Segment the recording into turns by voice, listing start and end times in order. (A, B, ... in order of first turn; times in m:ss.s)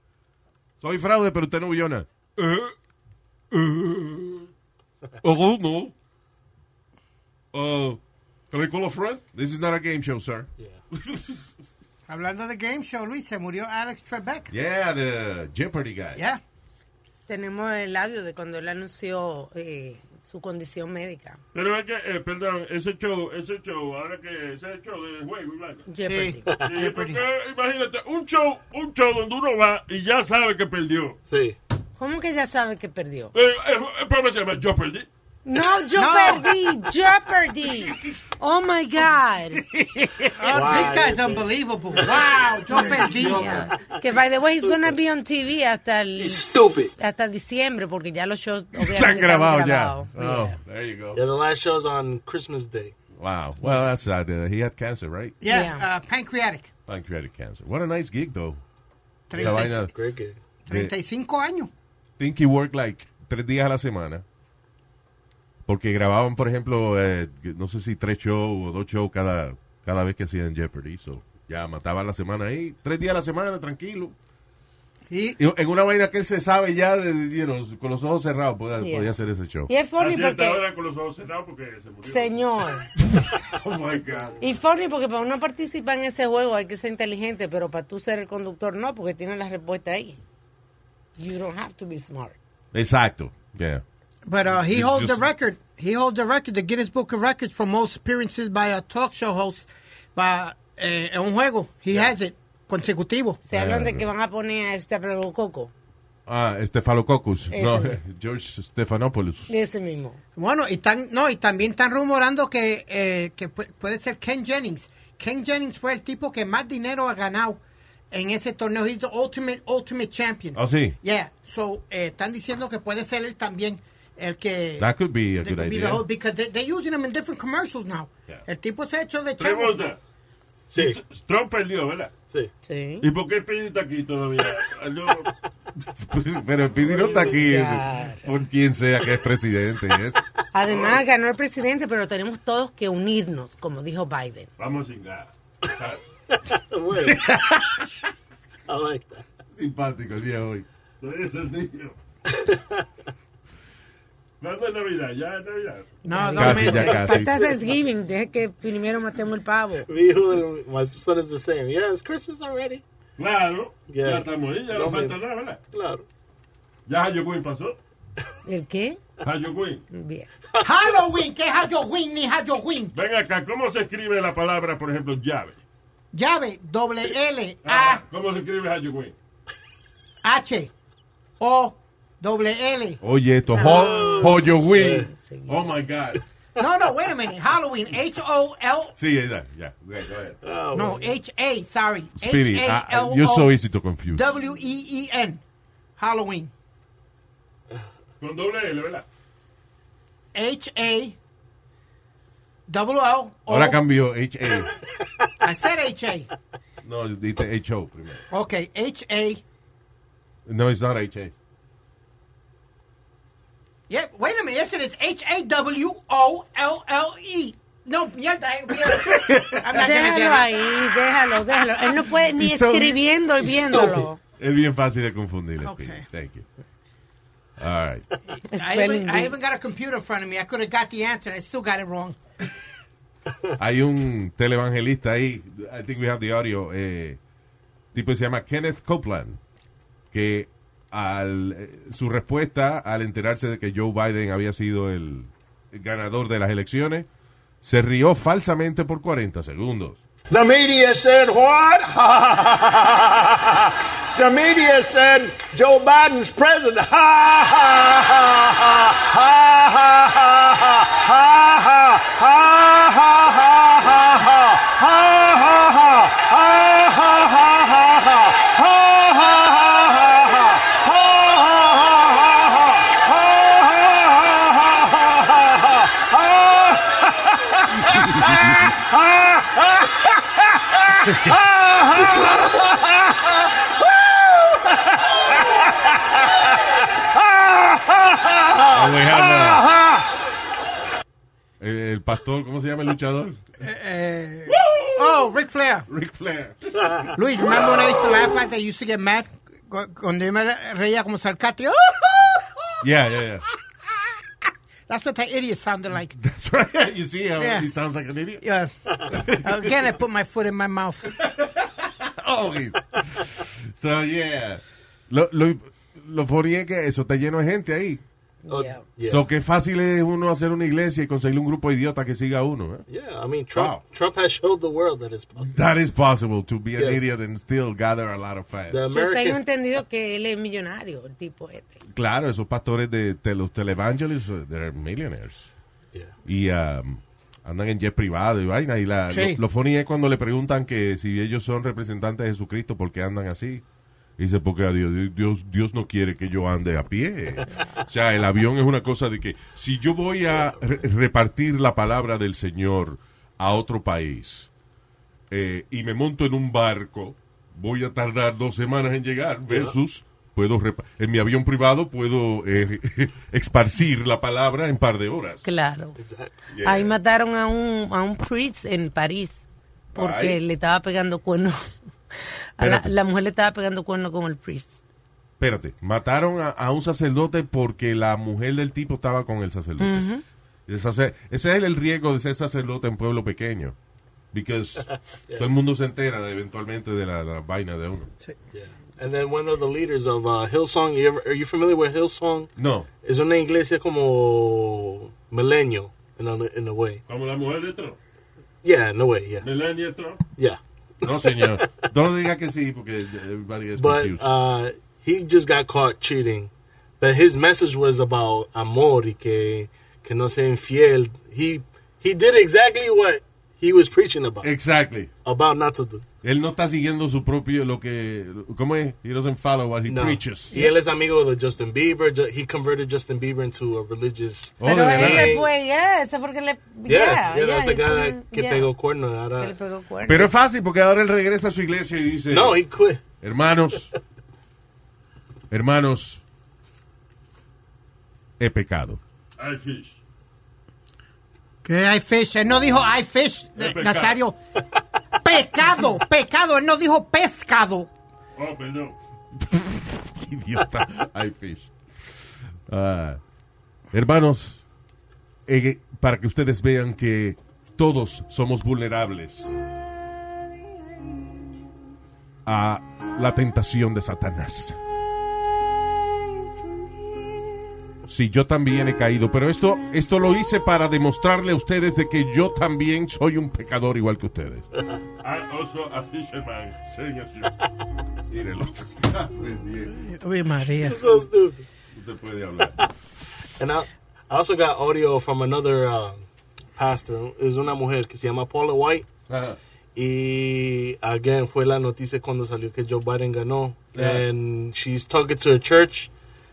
0:00.8-0:02.7 A
0:03.5-0:04.5 A
0:05.2-0:05.9 A
0:07.5-0:08.0 A
0:08.5-0:11.5 A
0:12.1-0:14.5 B
0:14.5-0:16.2 A
0:16.2-0:16.4 B
0:17.3-0:21.4 C
0:21.5-0:25.8 D
0:25.9-0:26.5 C
0:26.0-0:27.2 B
0:26.7-0:31.2 D
0:31.3-0:31.6 E
0:32.0-0:33.3 C
0:33.3-0:35.1 D
0:35.4-0:39.7 C
0:36.0-0:36.5 B
0:39.6-0:40.6 A
0:40.4-0:43.7 B
0:40.5-0:41.5 E
0:42.7-0:50.6 C
0:43.3-0:43.8 E
0:48.8-0:51.2 A
0:51.2-0:52.9 E
0:53.2-0:55.4 A
0:55.4-0:56.7 B
0:55.5-0:55.8 C
0:56.9-0:58.6 A
0:59.3-0:59.9 B
0:59.3-0:59.9 A
0:59.4-1:00.4 E
1:00.7-1:01.7 B
1:02.2-1:04.2 A
1:05.7-1:14.2 A
1:15.1-1:15.4 B
1:15.4-1:19.7 A
1:18.8-1:19.1 C
1:19.7-1:20.6 C
1:20.0-1:22.4 D
1:22.0-1:22.9 C
1:23.1-1:24.4 A
1:24.4-1:30.2 C
1:31.2-1:32.4 C
1:32.7-1:33.8 A
1:34.3-1:43.4 B
1:34.5-1:35.3 A
1:43.4-1:45.7 C
1:43.5-1:44.1 A
1:46.3-1:49.5 A
1:47.5-1:48.0 C
1:49.5-1:50.2 C
1:50.4-1:57.6 B
1:58.1-2:09.8 B
2:00.6-2:01.0 A
2:04.8-2:06.0 A
2:09.4-2:10.0 D
2:10.7-2:11.0 E
2:10.7-2:12.2 D
2:12.6-2:13.1 C
2:13.0-2:15.3 D
2:16.0-2:20.2 A
2:16.9-2:17.4 E
2:17.3-2:18.2 C
2:20.5-2:24.5 C
2:20.7-2:21.0 D
2:24.6-2:26.0 D
2:26.3-2:27.3 E
2:27.0-2:27.9 A
2:28.7-2:29.2 E
2:29.5-2:30.7 A
2:31.0-2:32.0 D
2:32.3-2:32.9 E
2:34.4-2:35.9 D
2:36.0-2:37.3 B
2:36.1-2:39.9 C
2:36.4-2:37.4 A
2:39.9-2:42.8 E
2:43.2-2:45.6 D
2:43.9-2:45.2 E
2:45.7-2:46.1 E
2:46.9-2:47.8 D
2:48.4-2:49.0 C
2:49.2-2:49.8 D
2:49.9-2:50.3 C
2:50.6-2:53.0 B
2:52.9-2:55.6 D
2:56.1-2:58.0 B
2:57.6-2:59.2 D
3:00.2-3:00.7 B
3:01.4-3:03.0 B
3:03.0-3:06.2 A
3:03.5-3:04.5 C
3:03.6-3:05.1 E
3:05.1-3:05.6 C
3:06.6-3:09.0 B
3:09.0-3:10.4 A
3:10.4-3:11.1 E
3:10.7-3:13.5 B
3:12.2-3:14.3 A
3:14.1-3:15.4 B
3:16.0-3:16.5 B
3:18.2-3:19.0 D
3:20.3-3:21.2 B
3:22.7-3:23.8 B
3:23.5-3:24.7 A
3:25.4-3:26.3 B
3:26.8-3:28.2 A
3:28.3-3:29.4 B
3:30.5-3:31.3 A
3:33.9-3:40.6 B
3:38.9-3:39.8 A
3:39.7-3:44.2 C
3:42.4-3:43.0 A
3:44.4-3:46.5 A
3:45.6-3:46.1 B
3:47.6-3:48.1 A
3:48.5-3:49.3 C
3:48.5-3:52.2 B
3:53.6-3:57.2 A
3:57.9-3:59.4 A
4:00.1-4:07.1 A
4:07.6-4:10.0 A
4:10.3-4:37.4 F
4:37.8-4:38.8 A
4:38.8-4:42.8 F
4:41.0-4:41.4 A
4:47.4-4:50.0 F
4:48.7-4:49.7 A
4:51.6-4:53.4 A
4:53.6-4:55.9 B
4:54.5-4:55.3 A
4:55.9-4:58.2 A
4:57.1-5:02.8 B
5:02.8-5:03.5 A
5:04.9-5:06.2 B
5:06.2-5:08.4 A
5:07.4-5:07.7 B
5:08.4-5:11.1 B
5:09.1-5:09.7 A
5:11.2-5:18.0 A
5:18.5-5:18.8 C
5:18.5-5:19.2 E
5:19.0-5:22.9 A
5:22.9-5:25.6 E
5:23.6-5:23.8 A
5:25.5-5:28.8 A
5:26.8-5:27.1 E
5:28.7-5:29.4 E
5:28.9-5:31.8 C
5:31.9-5:35.5 A
5:36.2-5:43.6 A
5:39.1-5:39.4 B
5:44.2-5:54.5 A
5:55.3-6:05.5 A
5:59.5-5:59.8 E
6:05.4-6:06.0 C
6:06.0-6:06.4 E
6:06.5-6:06.9 A
6:06.6-6:09.4 C
6:10.0-6:10.4 A
6:10.0-6:11.8 C
6:12.6-6:14.8 C
6:12.6-6:12.9 A
6:15.4-6:20.1 A
6:19.8-6:20.2 C
6:20.7-6:23.8 A
6:24.3-6:28.1 A
6:28.5-6:32.5 E
6:32.6-6:32.9 A
6:33.0-6:37.0 E
6:37.1-6:38.0 D
6:38.6-6:39.5 E
6:39.4-6:40.2 D
6:40.4-6:41.9 E
6:41.0-6:44.3 A
6:43.8-6:54.5 E
6:54.4-6:55.1 A
6:55.2-6:56.0 E
6:56.2-7:00.6 A
6:59.9-7:05.5 E
7:04.6-7:05.3 A
7:04.6-7:08.7 C
7:06.9-7:09.5 E
7:09.4-7:10.3 C
7:10.1-7:12.6 A
7:12.3-7:13.0 E
7:13.2-7:13.9 A
7:15.5-7:16.2 A
7:18.4-7:19.0 A
7:19.4-7:20.0 D
7:21.6-7:24.4 B
7:23.6-7:24.2 D
7:25.2-7:27.9 B
7:28.4-7:29.0 D
7:29.4-7:31.7 A
7:32.7-7:33.2 A
7:33.9-7:34.6 A
7:35.5-7:39.6 A
7:42.4-7:44.8 A
7:48.1-7:54.6 A
7:55.2-7:57.6 D
7:58.3-8:00.1 A
8:00.1-8:01.0 B
8:00.8-8:01.6 E
8:01.9-8:02.8 A
8:03.6-8:06.2 E
8:06.8-8:09.1 E
8:09.3-8:09.6 A
8:10.0-8:16.1 E
8:14.0-8:14.2 A